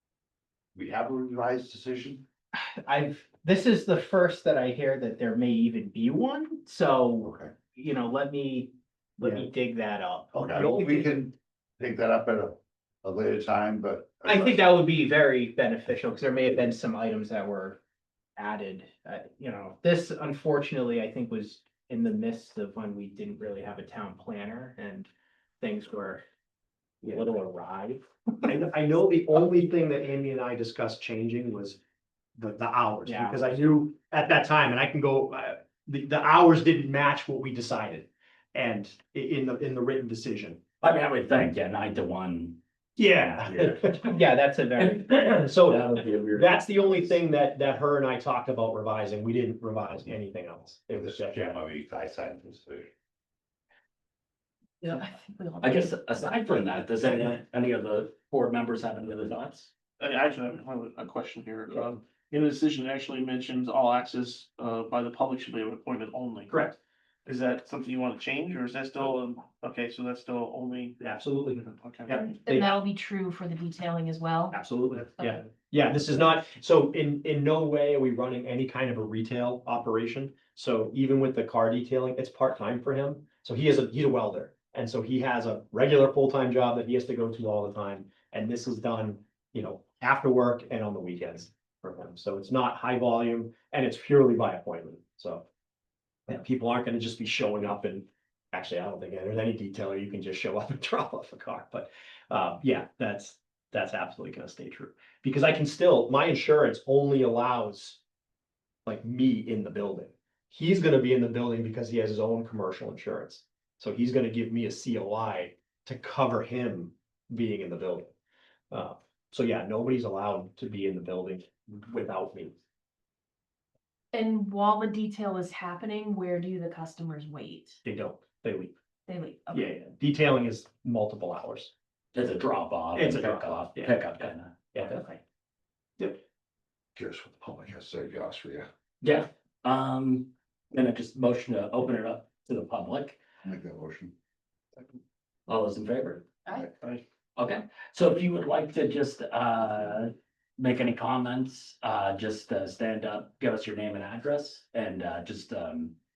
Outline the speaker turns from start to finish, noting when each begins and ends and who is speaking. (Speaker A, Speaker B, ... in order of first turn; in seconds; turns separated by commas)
Speaker A: 0.7-2.2, Speaker B: 2.5-10.3, Speaker A: 7.2-7.5, Speaker A: 10.3-14.8, Speaker C: 10.5-11.1, Speaker B: 14.3-17.8, Speaker B: 18.4-25.1, Speaker B: 25.6-26.2, Speaker B: 27.0-28.0, Speaker C: 28.5-31.8, Speaker C: 32.4-40.6, Speaker B: 33.1-33.4, Speaker D: 40.8-42.6, Speaker C: 43.0-44.2, Speaker D: 43.3-44.1, Speaker B: 44.1-45.1, Speaker D: 44.8-47.1, Speaker C: 45.2-51.6, Speaker A: 51.0-52.9, Speaker E: 54.8-56.0, Speaker D: 55.6-59.7, Speaker F: 60.0-66.5, Speaker C: 66.5-66.8, Speaker F: 67.3-71.0, Speaker C: 71.0-72.7, Speaker F: 71.7-72.1, Speaker E: 72.1-74.6, Speaker C: 74.5-95.5, Speaker C: 96.3-108.0, Speaker C: 108.9-118.1, Speaker C: 118.7-122.6, Speaker E: 124.1-127.8, Speaker C: 127.8-128.7, Speaker E: 129.1-129.7, Speaker C: 129.5-131.7, Speaker D: 132.1-135.0, Speaker C: 132.9-135.0, Speaker A: 137.0-138.7, Speaker D: 139.0-143.2, Speaker A: 143.4-144.1, Speaker D: 145.5-146.3, Speaker D: 147.4-156.0